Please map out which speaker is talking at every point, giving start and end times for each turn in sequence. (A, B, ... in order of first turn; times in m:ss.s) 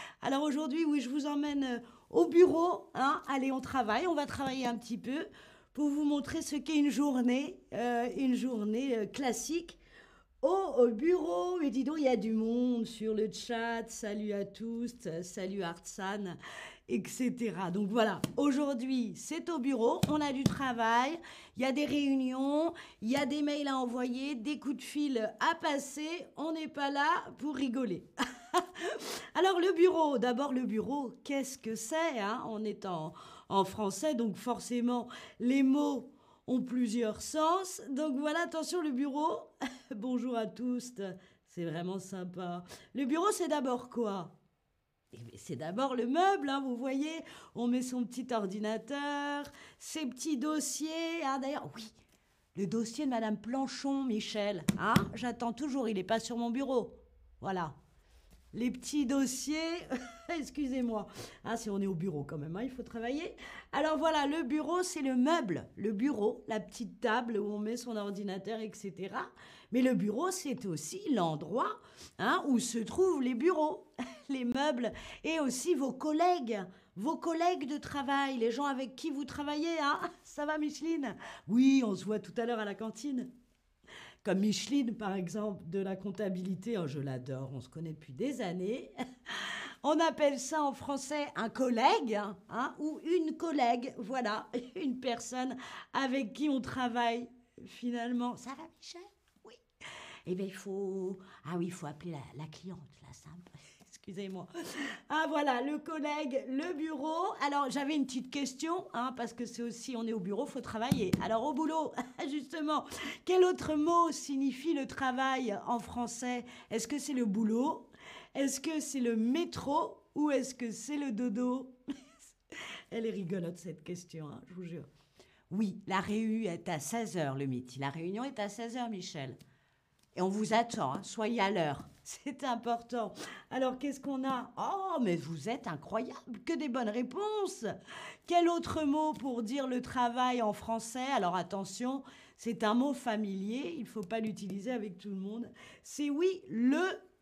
0:00.2-0:09.8 A
0:10.4-0:44.4 A
0:45.1-0:51.9 A
0:52.6-0:57.7 A
0:58.5-1:23.3 A
1:24.2-1:39.6 A
1:40.3-2:02.3 A
2:02.9-2:04.9 A
2:05.5-2:09.4 A
2:10.2-2:17.7 A
2:18.3-2:27.0 A